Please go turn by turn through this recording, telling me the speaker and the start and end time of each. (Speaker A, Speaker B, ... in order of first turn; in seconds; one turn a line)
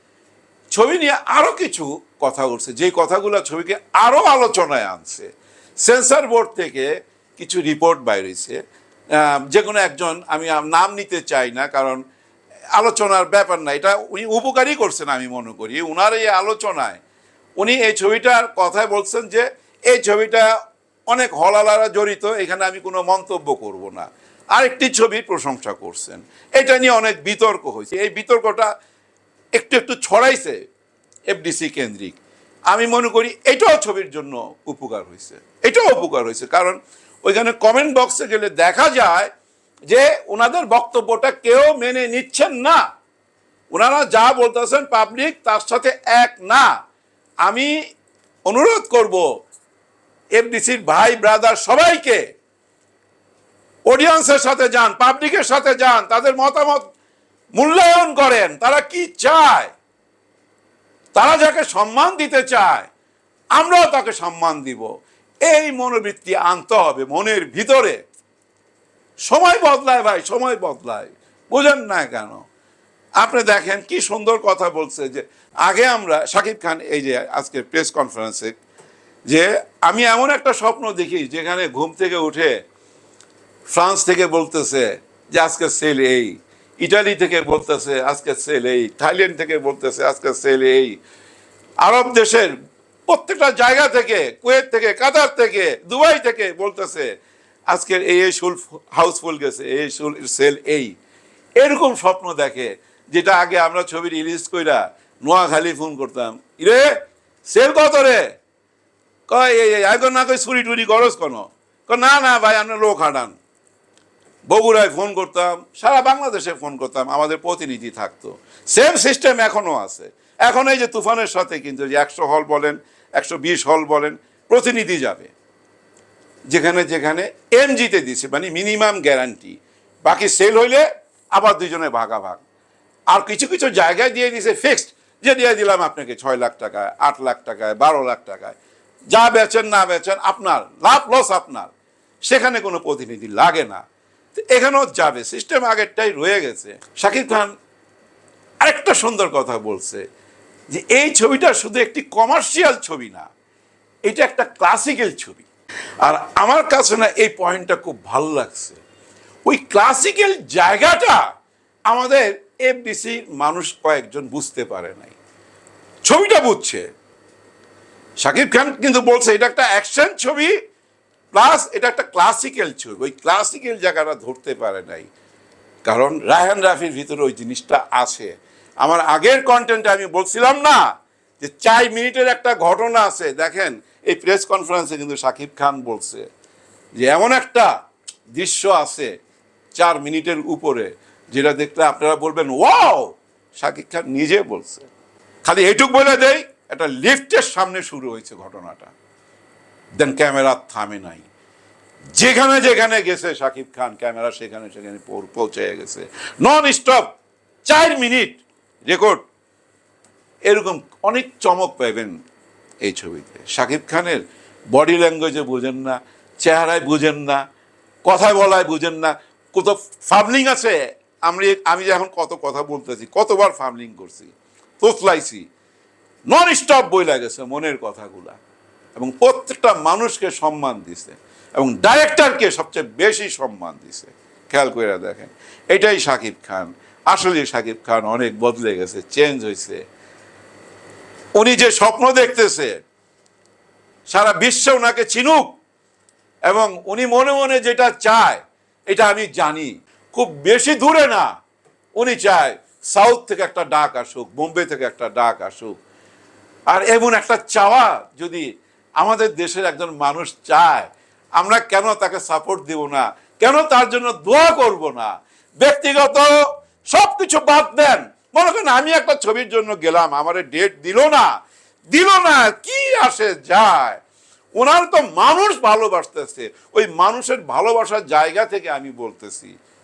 Speaker A: 0.7-5.3
Speaker A: 5.8-8.6
Speaker A: 9.1-12.0
Speaker A: 12.7-17.0
Speaker A: 17.6-20.5
Speaker A: 21.1-28.7
Speaker A: 29.6-30.6
Speaker A: 31.3-32.2
Speaker A: 32.7-39.3
Speaker A: 39.9-42.8
Speaker A: 43.7-46.7
Speaker A: 47.4-47.7
Speaker A: 48.5-49.3
Speaker A: 50.3-52.2
Speaker A: 53.9-56.8
Speaker A: 57.5-59.7
Speaker A: 61.1-62.9
Speaker A: 63.5-64.9
Speaker A: 65.5-68.0
Speaker A: 69.2-72.4
Speaker A: 73.2-78.5
Speaker A: 79.3-82.5
Speaker A: 83.7-91.0
Speaker A: 91.8-92.5
Speaker A: 93.1-97.1
Speaker A: 97.7-100.9
Speaker A: 101.6-106.9
Speaker A: 107.5-108.2
Speaker A: 109.3-113.3
Speaker A: 114.5-125.3
Speaker A: 126.5-132.4
Speaker A: 133.1-138.6
Speaker A: 139.1-141.7
Speaker A: 142.2-143.8
Speaker A: 144.4-147.5
Speaker A: 148.6-150.0
Speaker A: 150.7-153.3
Speaker A: 154.1-155.4
Speaker A: 156.0-158.8
Speaker A: 159.4-161.2
Speaker A: 161.9-165.2
Speaker A: 166.0-166.8
Speaker A: 168.2-170.5
Speaker A: 171.3-175.1
Speaker A: 175.8-180.9
Speaker A: 181.4-186.2
Speaker A: 187.0-187.7
Speaker A: 188.3-189.1
Speaker A: 189.7-194.9
Speaker A: 195.4-198.9
Speaker A: 199.9-201.2
Speaker A: 202.1-207.1
Speaker A: 207.7-209.2
Speaker A: 210.4-212.2
Speaker A: 212.8-217.4
Speaker A: 218.1-225.4
Speaker A: 226.3-228.4
Speaker A: 228.9-239.8
Speaker A: 241.3-242.8
Speaker A: 244.1-245.6
Speaker A: 246.5-251.3
Speaker A: 252.0-255.7
Speaker A: 256.7-258.4
Speaker A: 259.0-266.4
Speaker A: 266.9-271.3
Speaker A: 271.9-274.0
Speaker A: 274.6-279.5